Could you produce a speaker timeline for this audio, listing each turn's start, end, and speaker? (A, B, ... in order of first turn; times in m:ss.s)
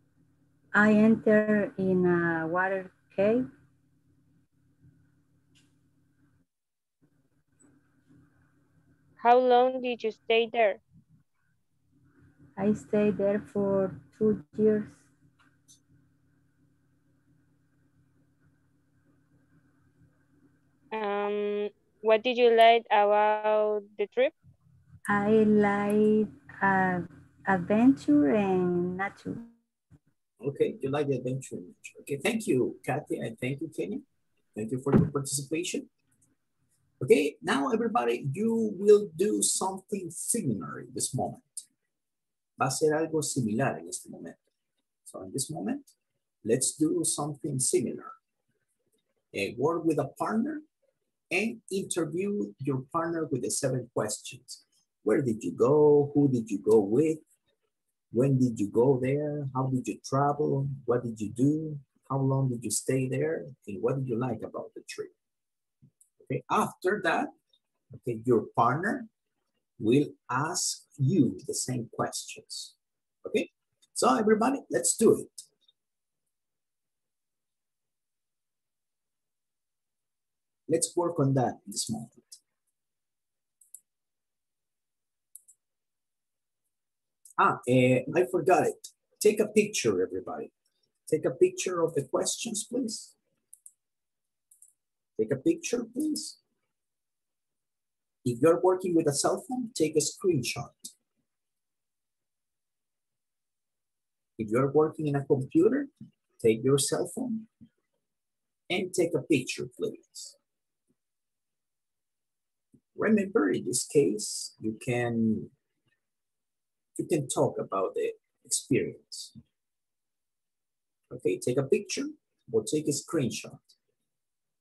0:00.7-0:03.4 A
0:09.2-0:10.8 B
0:12.6-0:15.0 A
0:20.9-0:24.3 B
0:25.1-0:29.5 A
0:30.4-0:34.0 C
0:34.5-0:35.9 C
0:37.0-0:41.6 C
0:42.6-0:44.4 C
0:45.0-0:45.9 C
0:46.4-0:48.2 C
0:49.3-0:50.6 C
0:51.3-0:57.2 C
0:58.1-1:05.1 C
1:06.2-1:07.3 C
1:07.9-1:09.1 C
1:09.8-1:15.5 C
1:20.7-1:22.4 C
1:27.4-1:30.5 C
1:31.1-1:33.1 C
1:35.2-1:36.4 C
1:38.2-1:40.9 C
1:44.4-1:47.5 C
1:48.7-1:50.4 C
1:52.9-1:55.5 C
1:56.9-1:59.3 C
2:01.1-2:03.7 C